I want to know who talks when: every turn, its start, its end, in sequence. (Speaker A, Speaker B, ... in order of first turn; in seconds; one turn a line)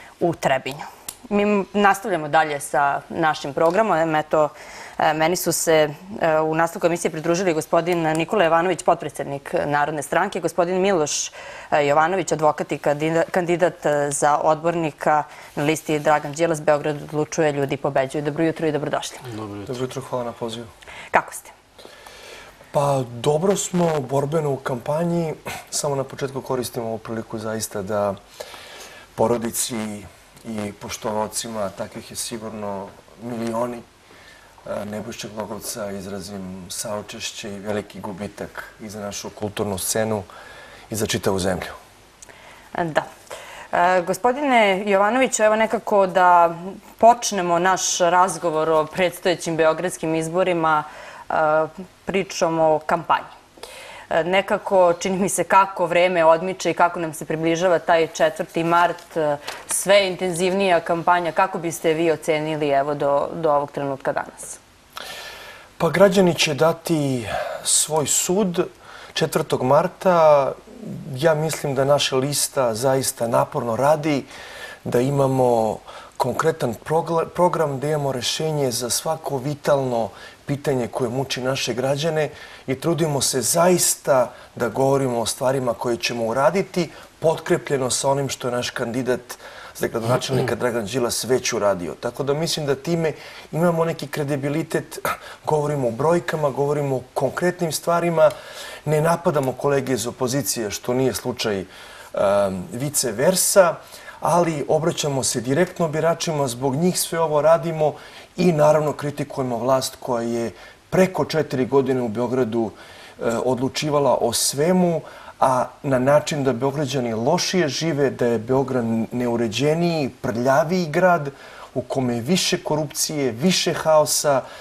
Speaker A: 0.2-19.3
Speaker B: 19.6-20.7
Speaker A: 21.1-21.5
Speaker B: 22.7-28.2
Speaker B: 29.1-33.8
Speaker B: 34.6-40.3
Speaker B: 40.9-41.8
Speaker A: 42.8-43.1
Speaker A: 43.7-53.3
Speaker A: 54.1-64.6
Speaker B: 65.8-74.3
Speaker B: 74.8-98.3
Speaker B: 98.8-124.4